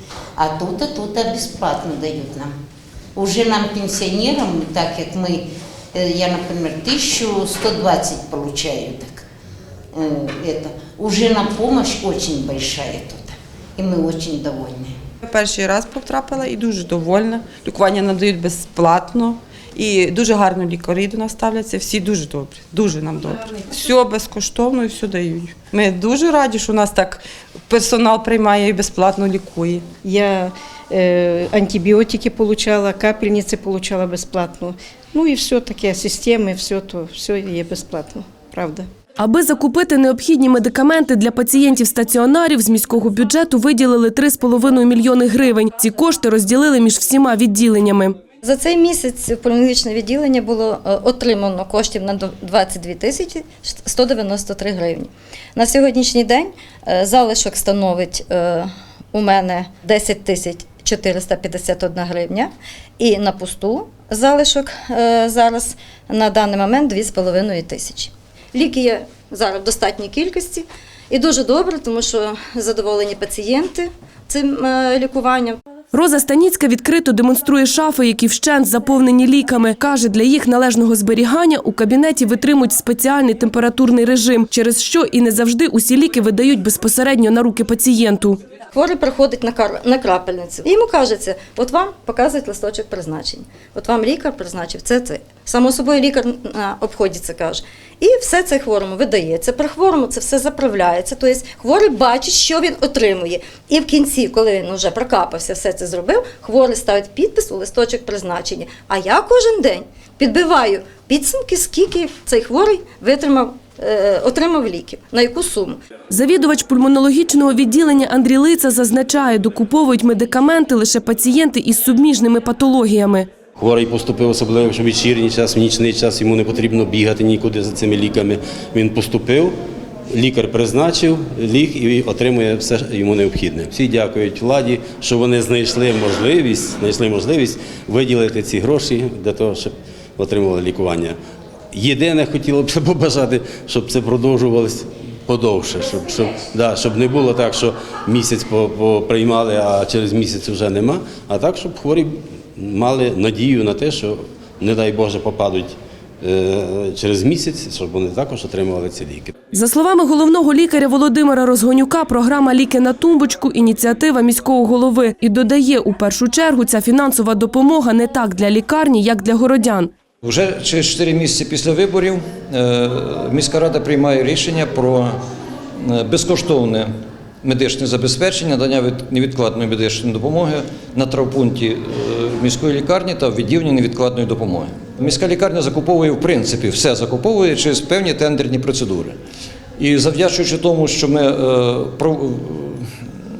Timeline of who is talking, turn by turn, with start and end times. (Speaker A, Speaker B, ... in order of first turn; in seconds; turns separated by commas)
Speaker A: 0.4-2.5, Speaker A: 3.1-9.2, Speaker A: 9.9-15.0, Speaker B: 15.2-29.9, Speaker C: 30.0-38.9, Speaker D: 39.2-48.2, Speaker E: 48.4-75.6, Speaker D: 75.9-88.4, Speaker E: 88.7-115.8, Speaker D: 116.1-123.3, Speaker F: 123.5-129.6, Speaker F: 130.1-141.2, Speaker F: 141.7-159.3, Speaker D: 159.5-169.9, Speaker G: 170.2-175.1, Speaker G: 175.8-176.9, Speaker G: 177.4-189.2, Speaker G: 189.8-192.8